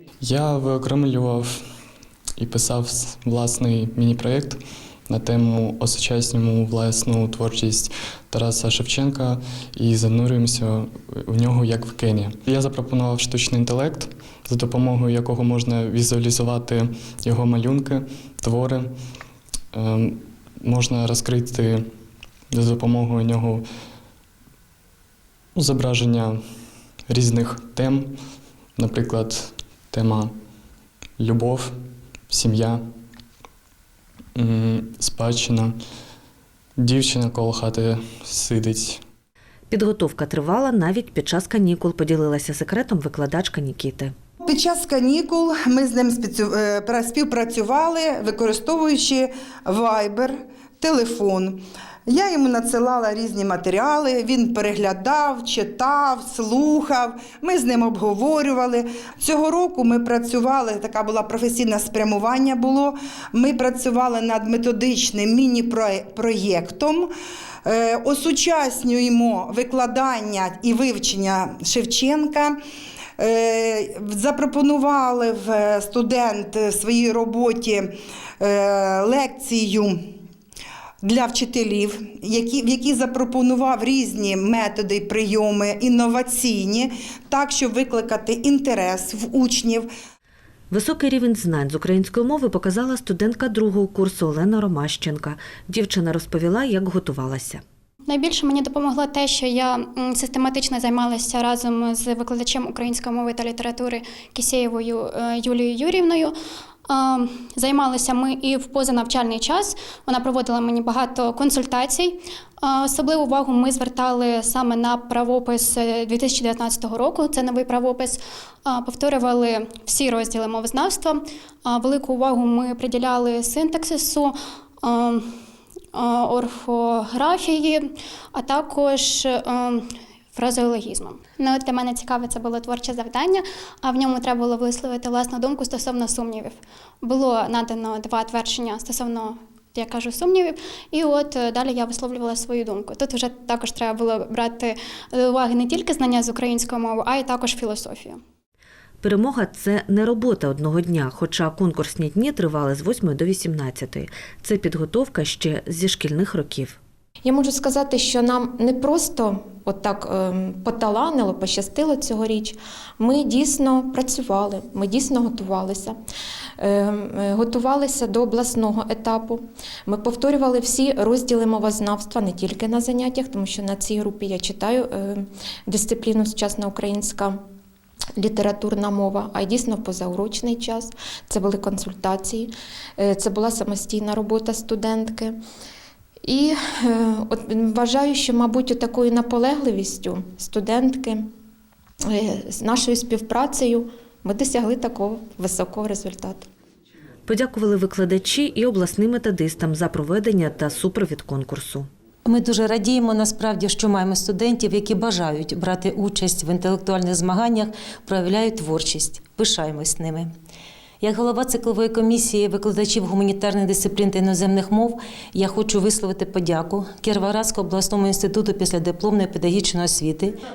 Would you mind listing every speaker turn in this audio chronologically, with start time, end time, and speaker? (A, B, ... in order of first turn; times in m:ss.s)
0:00.2-0:01.6 A
0:02.4-0:04.6 A
0:05.1-0:18.9 A
0:19.7-0:21.8 A
0:22.5-0:23.6 A
0:25.6-0:26.4 A
0:27.1-0:28.1 A
0:28.8-0:30.3 A
0:31.2-0:31.7 A
0:32.3-0:32.8 A
0:34.4-0:35.8 A
0:36.8-0:39.0 A
0:39.7-0:44.1 B
0:44.4-1:07.1 C
1:07.6-1:12.6 C
1:13.2-1:20.0 C
1:21.0-1:29.9 C
1:30.7-1:37.6 B
1:38.0-1:46.3 D
1:46.9-2:05.3 D
2:05.9-2:28.2 D
2:29.0-2:36.8 B
2:37.2-2:46.0 E
2:46.6-2:57.4 E
2:58.2-3:05.4 E
3:06.2-3:11.2 E
3:12.1-3:16.4 E
3:17.3-3:21.9 B
3:22.2-3:30.3 F
3:31.0-3:40.4 F